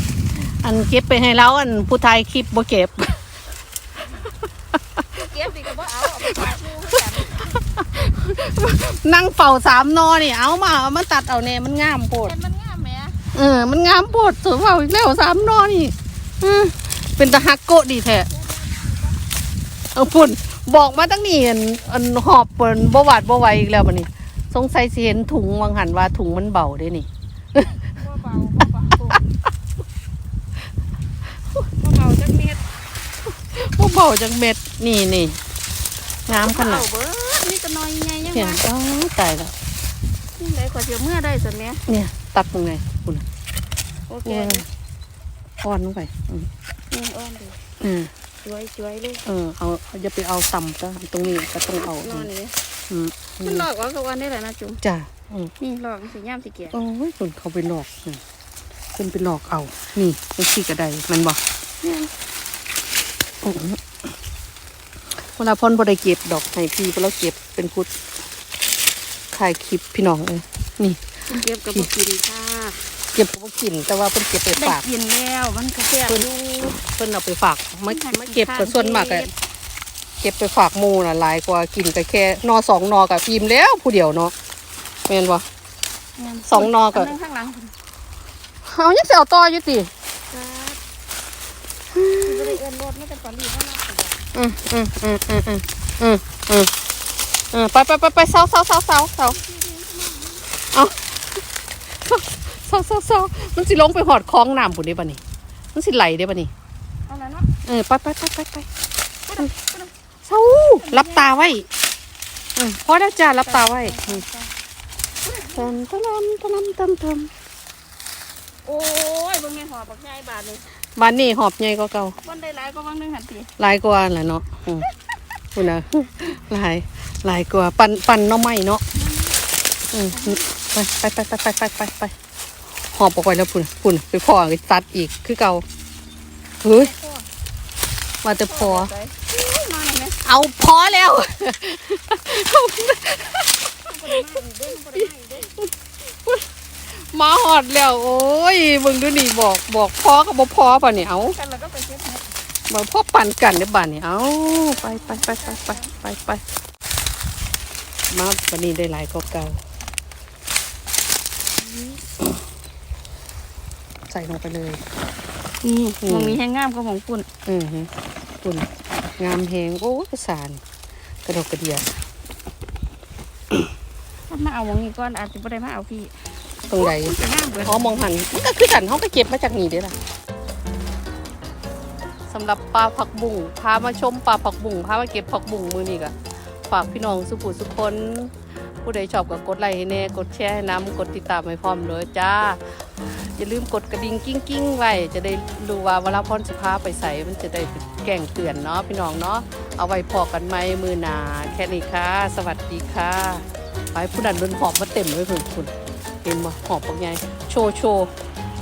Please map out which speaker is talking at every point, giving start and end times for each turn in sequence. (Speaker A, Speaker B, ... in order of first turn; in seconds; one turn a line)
Speaker A: 0.4-3.1
Speaker B: 5.2-7.6
Speaker A: 6.0-6.5
Speaker A: 7.2-12.3
Speaker B: 12.2-13.2
Speaker A: 13.3-18.3
Speaker B: 18.2-19.2
Speaker A: 19.9-27.7
Speaker B: 27.6-29.2
Speaker B: 31.6-32.6
Speaker A: 33.4-35.4
Speaker A: 36.3-36.9
Speaker B: 36.3-38.6
Speaker A: 38.3-39.5
Speaker B: 40.4-41.8
Speaker A: 41.9-43.2
Speaker B: 44.1-44.7
Speaker A: 44.2-44.6
Speaker A: 45.6-46.5
Speaker B: 46.9-47.6
Speaker A: 47.8-48.1
Speaker B: 48.4-49.2
Speaker A: 49.2-52.3
Speaker B: 51.7-52.5
Speaker A: 52.9-53.6
Speaker B: 53.4-54.8
Speaker A: 54.8-55.5
Speaker B: 55.6-56.8
Speaker A: 56.7-58.2
Speaker A: 58.9-61.4
Speaker B: 61.8-62.1
Speaker A: 63.4-63.9
Speaker A: 65.2-67.9
Speaker A: 69.3-71.9
Speaker B: 71.3-72.8
Speaker A: 73.1-74.8
Speaker B: 74.5-76.8
Speaker A: 76.0-79.3
Speaker B: 77.9-79.3
Speaker A: 80.2-84.3
Speaker A: 85.1-85.4
Speaker B: 86.2-87.7
Speaker A: 86.5-87.1
Speaker A: 88.7-89.9
Speaker B: 90.3-90.8
Speaker A: 91.9-92.6
Speaker B: 92.2-94.2
Speaker A: 94.3-96.7
Speaker A: 97.5-99.4
Speaker B: 99.2-100.5
Speaker A: 100.7-101.4
Speaker A: 102.0-105.2
Speaker A: 105.7-106.5
Speaker B: 107.1-107.5
Speaker A: 107.6-108.7
Speaker B: 109.3-109.9
Speaker A: 110.2-111.7
Speaker B: 110.6-111.3
Speaker A: 112.5-114.2
Speaker B: 113.2-114.5
Speaker B: 115.2-115.7
Speaker A: 115.5-117.3
Speaker B: 118.6-120.7
Speaker A: 121.0-122.2
Speaker B: 122.2-123.5
Speaker A: 123.6-124.9
Speaker A: 125.5-128.8
Speaker B: 128.9-129.4
Speaker A: 129.9-132.1
Speaker B: 130.1-130.5
Speaker A: 132.9-135.6
Speaker A: 136.6-136.9
Speaker B: 136.7-137.3
Speaker A: 138.2-138.9
Speaker B: 138.4-140.2
Speaker A: 140.2-151.3
Speaker B: 143.9-145.5
Speaker B: 151.2-152.3
Speaker A: 152.7-156.4
Speaker B: 154.4-155.9
Speaker A: 158.1-159.6
Speaker A: 164.1-164.8
Speaker B: 165.6-167.3
Speaker A: 166.0-166.4
Speaker A: 167.4-167.9
Speaker A: 168.4-170.6
Speaker A: 171.2-171.8
Speaker B: 174.3-176.2
Speaker A: 176.7-179.9
Speaker B: 176.7-178.0
Speaker A: 182.3-186.1
Speaker A: 186.7-208.1